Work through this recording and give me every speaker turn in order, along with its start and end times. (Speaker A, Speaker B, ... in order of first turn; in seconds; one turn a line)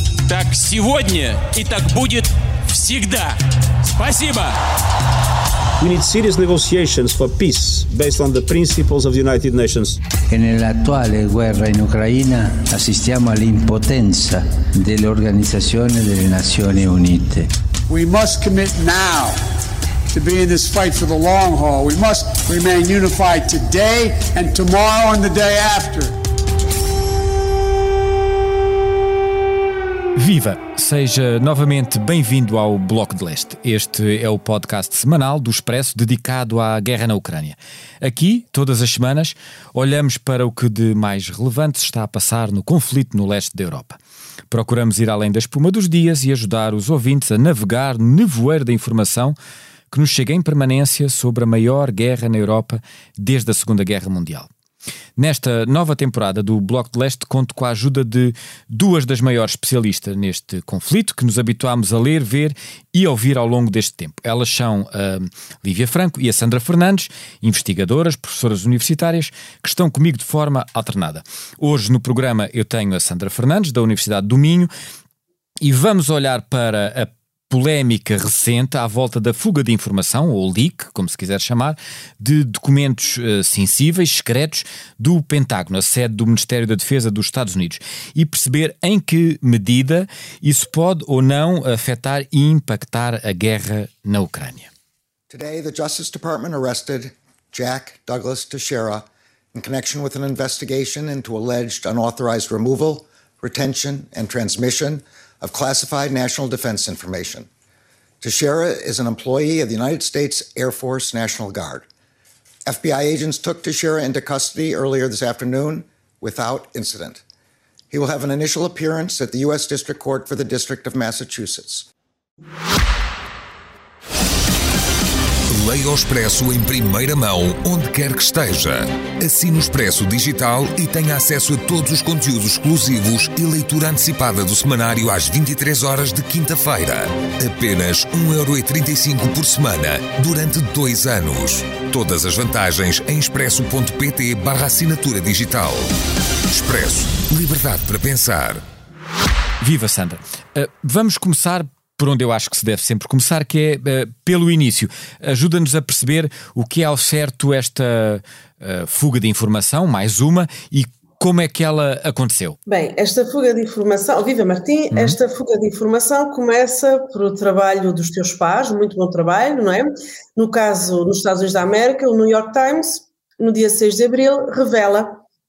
Speaker A: 0.2-3.4
Speaker A: 3.9-4.5
Speaker B: 5.8-10.0
Speaker C: 10.3-17.5
Speaker D: 17.9-19.4
Speaker D: 20.1-26.1
Speaker E: 30.1-44.0
Speaker E: 44.5-49.4
Speaker E: 49.9-54.5
Speaker E: 55.2-74.7
Speaker E: 75.6-94.7
Speaker F: 95.3-107.5
Speaker F: 108.2-111.8
Speaker F: 112.7-117.2
Speaker F: 117.9-121.9
Speaker G: 125.5-145.9
Speaker G: 146.5-148.6
Speaker E: 149.6-162.6
Speaker H: 162.7-175.2
Speaker E: 164.9-165.2